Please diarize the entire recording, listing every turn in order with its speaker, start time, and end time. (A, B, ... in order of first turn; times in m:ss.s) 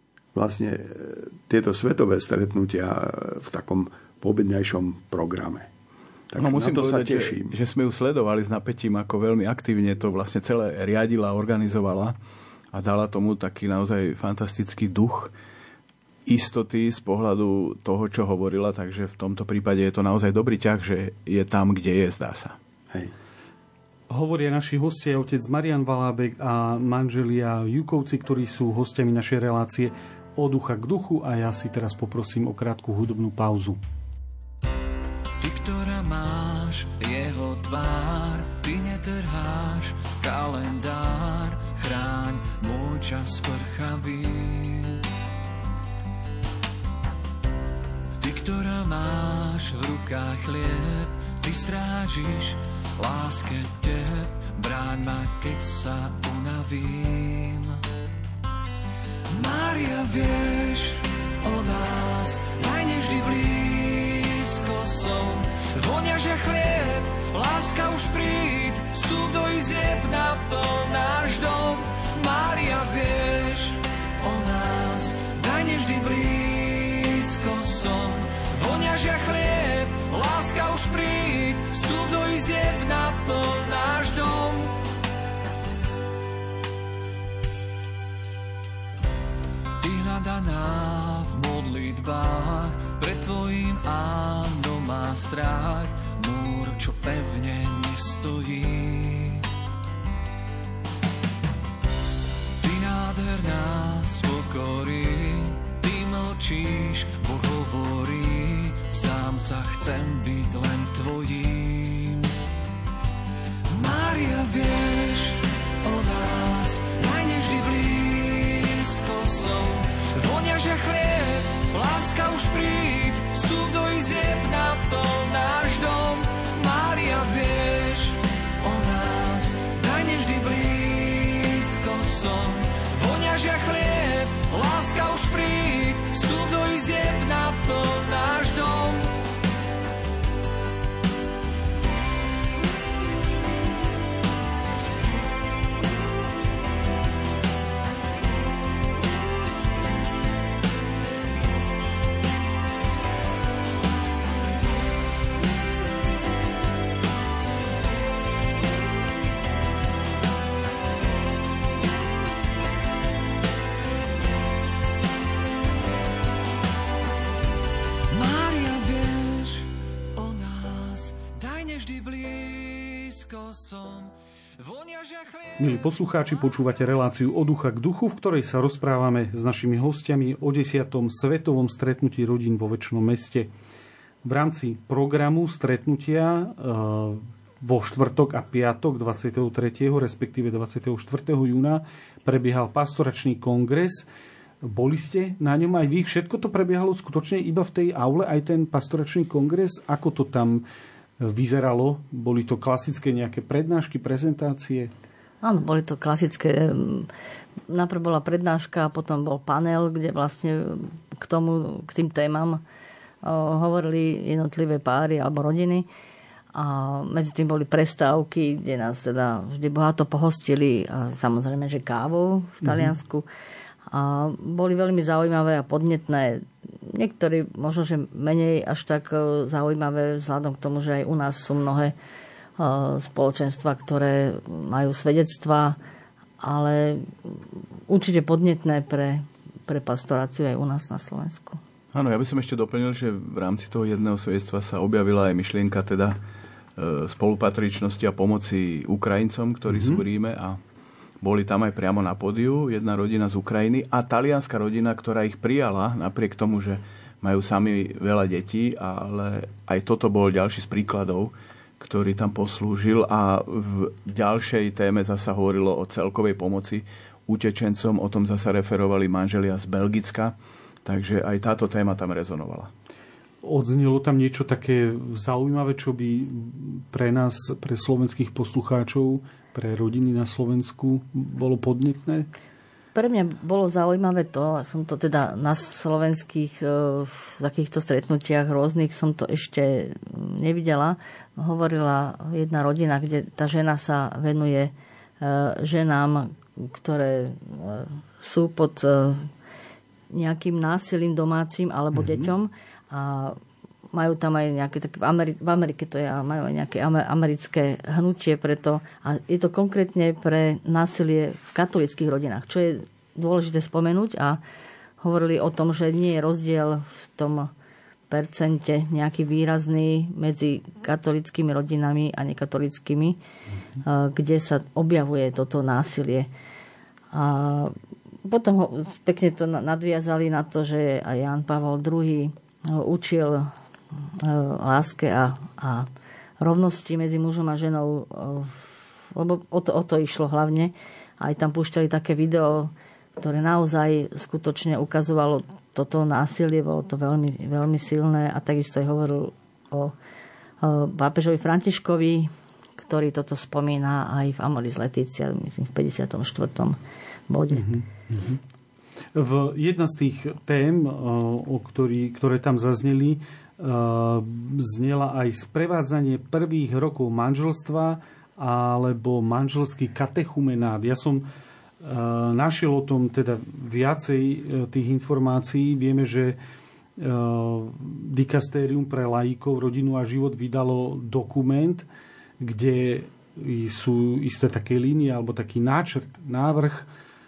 0:00.3-0:05.7 A
0:06.3-0:07.6 A
0:06.4-0:12.2 B
0:12.7-0:15.3 B
0:16.3-0:22.6 B
0:24.1-0:33.8 C
0:35.4-0:45.0 D
0:48.2-0:57.8 D
0:59.3-1:24.8 D
1:29.8-1:39.4 D
1:42.6-1:52.3 D
1:53.7-2:19.1 D
2:48.1-2:55.8 D
2:55.6-3:03.5 C
3:04.2-3:14.1 C
3:14.6-3:20.6 C
3:21.2-3:24.9 C
3:25.4-3:27.1 E
3:27.7-3:32.6 E
3:33.2-3:35.9 E
3:36.5-3:43.3 E
3:42.6-3:42.9 C
3:43.9-3:51.9 E
3:52.6-3:55.8 E
3:56.4-4:01.6 E
4:01.9-4:06.2 B
4:06.8-4:10.6 B
4:09.7-4:10.0 C
4:11.2-4:30.3 B
4:30.8-4:32.7 B
4:33.4-4:42.3 C
4:42.9-4:59.3 E
5:00.1-5:03.4 E
5:02.0-5:02.3 C
5:03.9-5:14.4 E
5:15.0-5:17.5 E
5:18.1-5:23.2 E
5:23.8-5:26.3 E
5:27.1-5:33.5 E
5:34.1-5:35.9 E
5:36.4-5:49.9 E
5:50.6-5:56.8 E
5:57.3-5:57.7 E
5:57.5-5:58.4 C
5:59.2-6:11.2 C
6:11.8-6:16.4 C
6:17.0-6:21.9 C
6:22.4-6:26.9 C